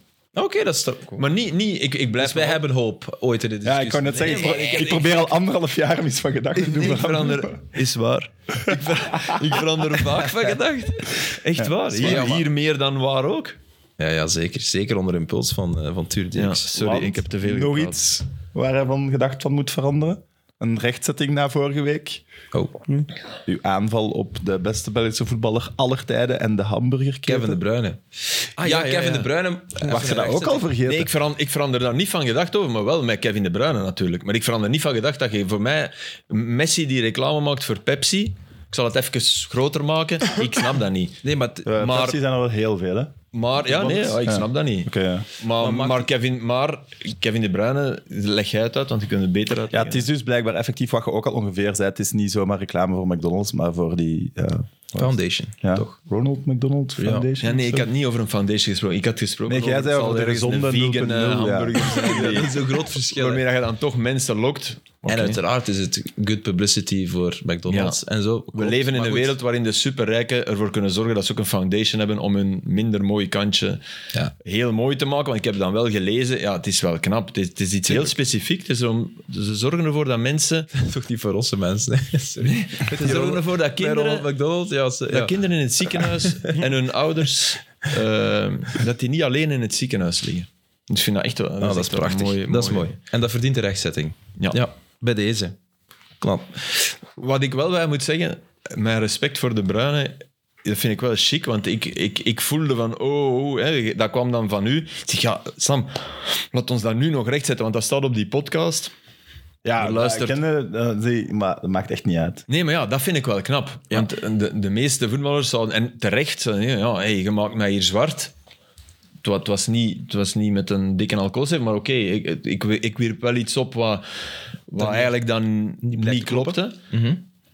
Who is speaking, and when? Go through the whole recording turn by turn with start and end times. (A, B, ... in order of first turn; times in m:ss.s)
0:00.4-0:01.3 A
0:01.2-0:02.6 B
0:02.2-0:05.3 A
0:03.6-0:07.5 C
0:04.1-0:05.2 B
0:06.6-0:13.6 B
0:08.6-0:09.6 C
0:11.6-0:12.3 C
0:12.0-0:12.5 A
0:14.0-0:16.7 A
0:16.4-0:18.0 B
0:16.8-0:22.2 C
0:22.5-0:22.8 A
0:23.5-0:27.6 C
0:27.3-0:28.0 A
0:28.6-0:29.3 B
0:28.6-0:30.7 A
0:29.9-0:31.1 C
0:30.8-0:42.2 B
0:41.2-0:41.7 A
0:41.7-0:45.3 C
0:43.3-0:50.0 B
0:45.6-0:46.1 A
0:49.7-0:57.9 C
0:55.0-0:55.9 A
0:57.0-0:57.3 A
0:57.4-1:05.4 B
0:59.5-1:02.4 C
1:02.0-1:03.4 A
1:05.1-1:09.4 A
1:07.7-1:08.0 B
1:08.5-1:13.8 B
1:14.4-1:20.7 B
1:20.7-1:26.6 A
1:22.4-1:24.3 B
1:25.1-1:33.0 B
1:31.6-1:35.6 A
1:36.2-1:36.6 A
1:37.2-1:48.9 B
1:49.6-1:52.4 C
1:49.8-1:50.4 B
1:52.5-1:58.3 B
1:59.2-2:04.0 B
2:04.7-2:06.8 B
2:04.8-2:05.1 A
2:05.8-2:07.2 A